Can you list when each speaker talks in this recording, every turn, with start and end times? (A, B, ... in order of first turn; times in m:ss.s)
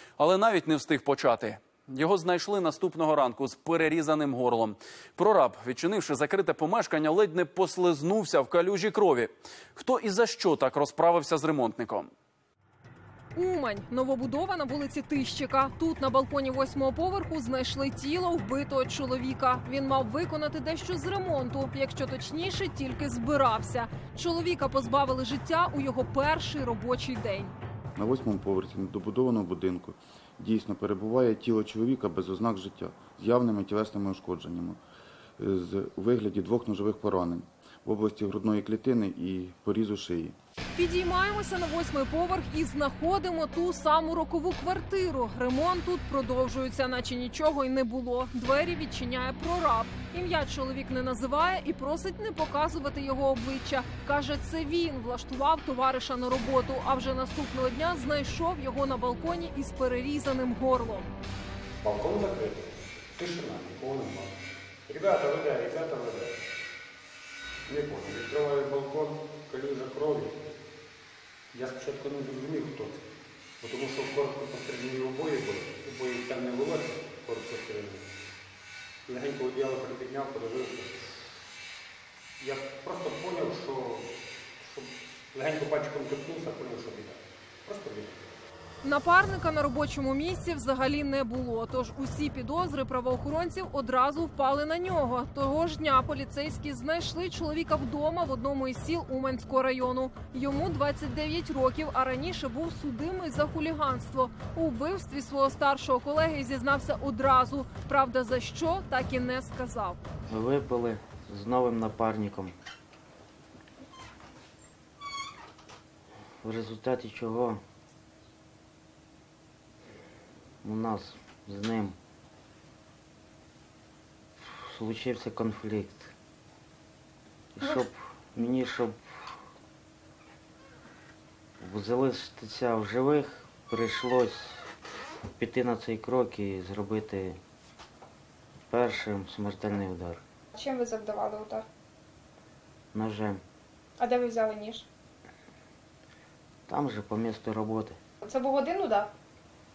0:00.2-0:12.1 A
0:13.3-0:27.5 B
0:28.0-0:34.8 C
0:35.4-0:40.4 C
0:40.8-1:01.1 B
1:01.8-1:04.3 D
1:04.9-1:06.3 D
1:07.7-1:10.3 D
1:11.5-1:13.0 D
1:13.6-1:18.0 D
1:19.1-1:21.0 D
1:22.4-1:28.2 D
1:28.8-1:50.0 B
1:50.3-1:52.5 E
1:56.4-1:57.6 E
2:00.6-2:02.0 E
2:04.4-2:06.1 E
2:07.6-2:09.3 E
2:11.6-2:14.6 E
2:15.4-2:17.4 E
2:18.7-2:20.2 E
2:20.6-2:21.6 C
2:20.9-2:21.6 F
2:22.9-2:23.4 E
2:24.0-2:24.8 F
2:26.7-2:28.0 E
2:28.2-2:29.1 F